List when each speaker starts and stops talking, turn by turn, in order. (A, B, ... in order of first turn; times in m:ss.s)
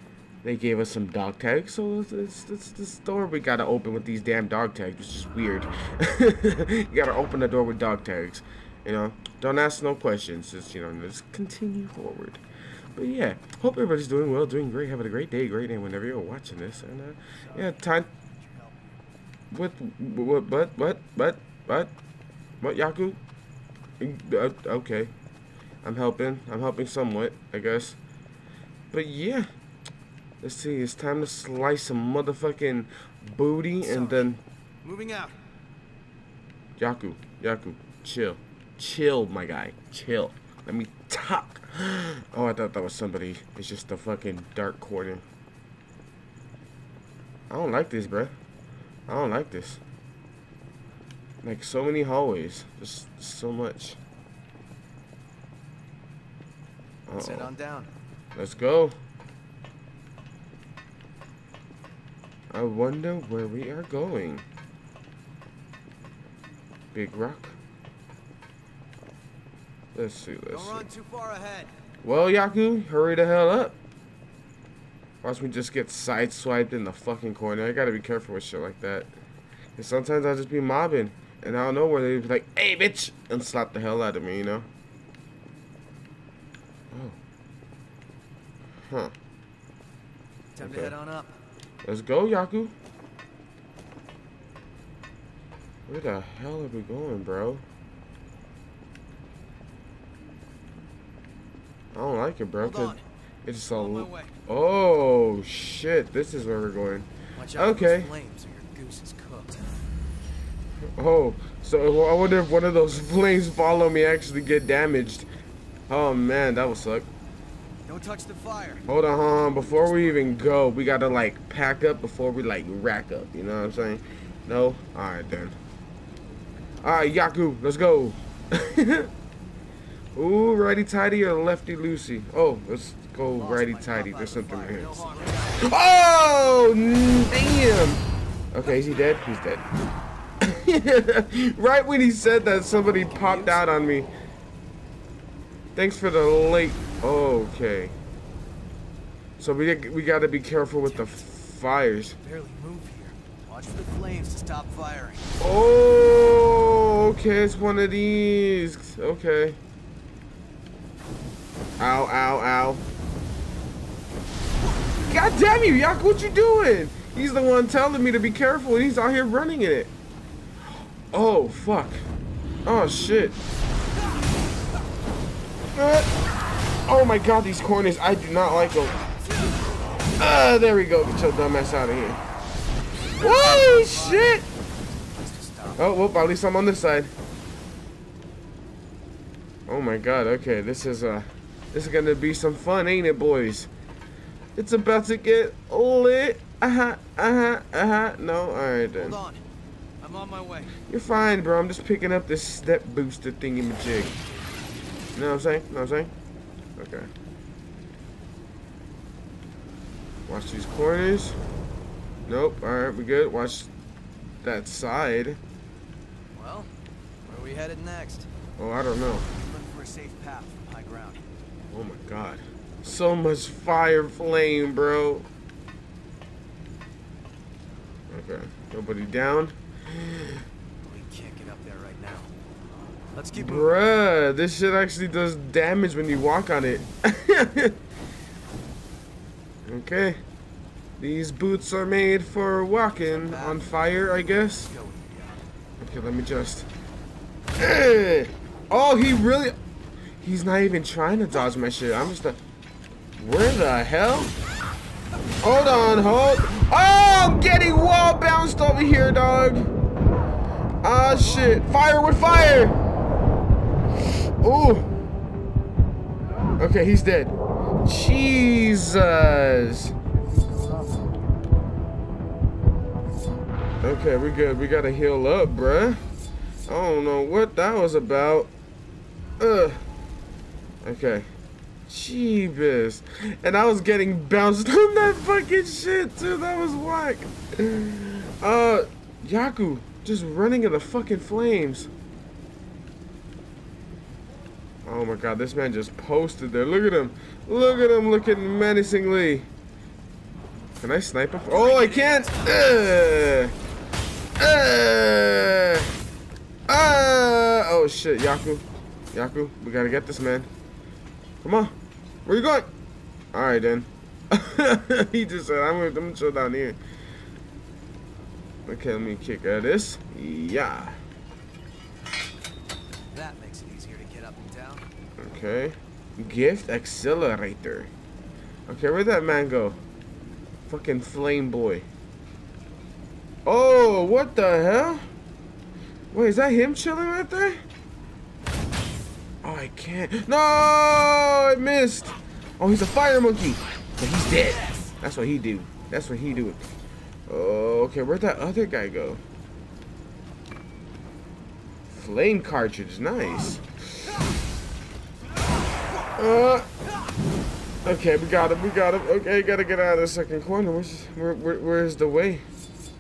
0:00.4-0:12.4 A
0:13.0-0:18.1 A
0:17.4-0:19.0 B
0:19.5-0:21.9 A
0:22.6-0:23.2 A
0:24.0-0:25.1 A
0:25.8-0:28.0 A
0:28.9-0:29.5 A
0:30.4-0:34.4 A
0:33.8-0:35.4 B
0:36.8-0:45.2 A
0:47.5-0:48.3 A
0:49.1-0:49.8 A
0:51.4-0:54.0 A
0:57.1-0:57.5 A
0:57.2-0:57.9 B
0:58.4-0:59.0 A
1:02.5-1:04.4 A
1:06.9-1:07.6 A
1:10.0-1:10.8 A
1:10.5-1:11.7 B
1:12.0-1:13.8 A
1:15.2-1:19.1 A
1:19.8-1:24.7 A
1:28.9-1:29.1 A
1:30.6-1:31.4 B
1:30.6-1:31.0 A
1:31.8-1:32.7 A
1:35.9-1:37.6 A
1:41.9-1:48.1 A
1:42.6-1:43.0 B
1:43.7-1:44.3 B
1:47.4-1:49.6 B
1:51.0-1:55.3 A
1:55.9-1:57.1 A
1:57.9-1:58.8 B
1:58.9-2:05.6 A
1:59.6-2:00.3 B
2:06.8-2:09.1 A
2:10.2-2:19.6 A
2:13.3-2:15.8 B
2:20.4-2:24.1 A
2:22.8-2:23.7 B
2:25.8-2:27.9 A
2:29.4-2:32.2 A
2:30.8-2:31.2 B
2:32.2-2:35.3 B
2:35.4-2:39.6 A
2:41.8-2:42.8 A
2:45.1-2:49.9 A
2:51.1-2:52.0 A
2:52.6-2:53.4 A
2:55.8-2:56.1 A
2:56.9-2:59.0 A
2:59.1-2:59.6 B
3:00.2-3:02.2 A
3:03.1-3:05.8 B
3:03.2-3:04.4 A
3:05.8-3:07.1 A
3:09.7-3:13.7 A
3:14.6-3:19.2 A
3:19.0-3:19.4 B
3:20.0-3:20.7 B
3:20.9-3:24.2 A
3:25.2-3:26.1 A
3:26.8-3:27.1 A
3:30.3-3:31.4 A
3:32.3-3:33.7 A
3:34.4-3:35.4 A
3:36.3-3:36.7 B
3:37.3-3:38.3 B
3:38.6-3:39.3 A
3:39.3-3:41.3 B
3:41.7-3:45.3 A
3:48.1-3:50.4 A
3:50.8-3:52.3 B
3:53.1-3:53.7 B
3:53.4-3:57.8 A
3:59.7-4:00.2 A
4:01.0-4:04.7 A
4:03.0-4:05.4 B
4:05.8-4:06.7 A
4:07.6-4:09.6 A
4:10.2-4:12.4 A
4:13.2-4:14.3 A
4:15.4-4:19.7 A
4:20.8-4:22.8 A
4:24.4-4:24.9 A
4:26.6-4:29.9 A
4:33.8-4:36.0 A
4:36.7-4:38.5 A
4:39.4-4:39.8 A
4:40.8-4:41.3 A
4:41.9-4:51.9 A
4:54.8-4:59.5 A
5:00.8-5:03.5 A
5:01.4-5:02.8 B
5:04.4-5:05.9 A
5:06.7-5:10.5 A
5:11.4-5:11.8 A
5:12.3-5:12.7 A
5:13.3-5:16.8 A
5:18.7-5:21.0 A
5:23.1-5:24.9 B
5:25.2-5:27.9 A
5:28.7-5:29.8 A
5:30.7-5:31.9 A
5:33.5-5:35.0 A
5:36.1-5:37.6 A
5:39.4-5:46.6 A
5:44.6-5:44.9 B
5:47.3-5:49.2 A
5:51.9-5:54.2 A
5:56.2-5:56.7 A
5:57.8-6:02.4 A